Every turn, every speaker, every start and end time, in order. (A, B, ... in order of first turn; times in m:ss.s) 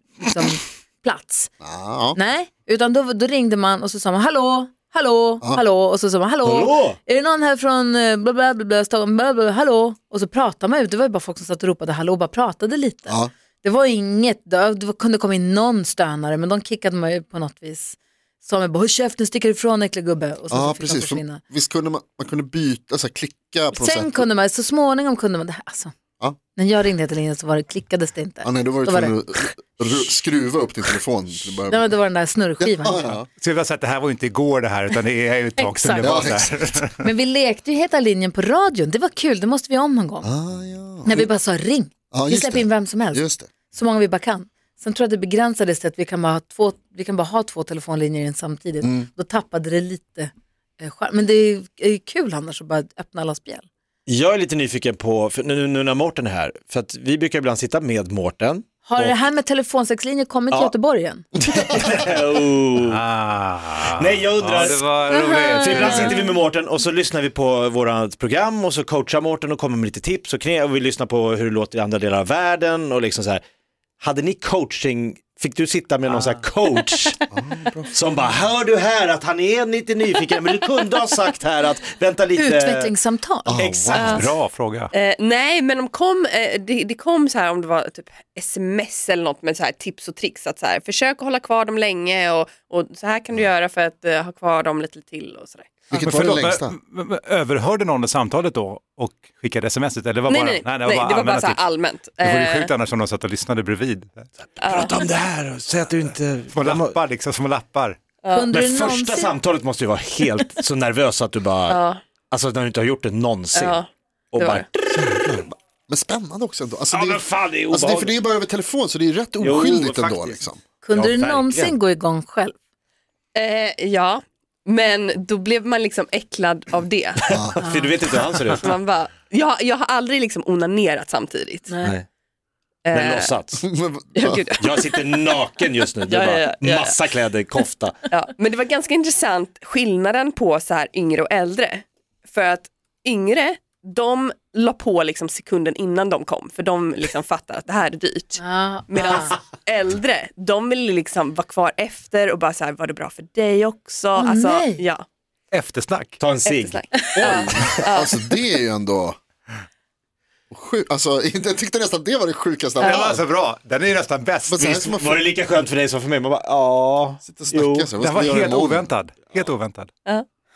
0:00.2-0:01.5 A
0:01.6-0:02.2 B
0:02.1-0:21.4 A
0:06.4-0:07.0 C
0:13.1-0:13.3 B
0:20.5-0:24.3 B
0:23.7-0:25.9 A
0:26.5-0:29.5 A
0:28.4-0:31.9 B
0:31.7-0:33.0 A
0:32.6-0:33.2 B
0:33.4-0:37.1 D
0:35.6-0:36.1 A
0:36.0-0:36.5 B
0:37.0-0:40.3 A
0:40.2-0:41.3 B
0:41.0-0:53.6 A
0:42.1-0:43.5 B
0:48.8-0:49.1 B
0:54.0-0:59.3 C
0:58.8-1:01.2 A
1:01.5-1:03.0 C
1:02.8-1:06.2 D
1:03.8-1:13.4 C
1:05.1-1:06.1 A
1:14.0-1:17.2 C
1:17.3-1:17.9 B
1:17.9-1:22.9 C
1:22.4-1:23.6 A
1:23.4-1:24.2 B
1:23.6-1:24.4 C
1:24.0-1:24.2 E
1:24.0-1:24.9 D
1:24.9-1:35.8 E
1:35.9-1:36.7 B
1:35.9-1:41.6 D
1:40.2-1:42.7 E
1:42.2-1:44.3 D
1:44.6-1:47.0 C
1:44.6-1:45.0 E
1:46.5-1:48.0 D
1:48.2-1:48.5 E
1:48.3-1:49.4 A
1:48.5-1:53.8 C
1:51.7-1:52.0 E
1:53.5-1:54.6 E
1:54.3-1:54.8 C
1:54.9-2:00.6 B
1:56.9-1:58.2 C
1:59.4-2:01.8 C
2:00.8-2:02.6 A
2:03.3-2:07.3 E
2:07.2-2:08.7 C
2:07.3-2:07.6 B
2:07.6-2:07.9 A
2:08.5-2:11.7 E
2:11.7-2:11.9 A
2:12.8-2:13.4 E
2:12.9-2:13.6 C
2:13.6-2:14.4 B
2:14.1-2:15.4 E
2:14.6-2:18.0 C
2:16.1-2:17.1 E
2:18.1-2:35.0 E
2:28.4-2:29.4 A
2:34.2-2:34.8 A
2:35.5-2:36.2 D
2:36.2-2:36.8 C
2:36.4-2:38.2 E
2:37.1-2:39.2 B
2:40.5-2:43.2 B
2:42.8-2:44.6 D
2:44.5-2:45.3 B
2:44.6-2:47.9 C
2:47.2-2:48.9 B
2:48.0-2:49.9 D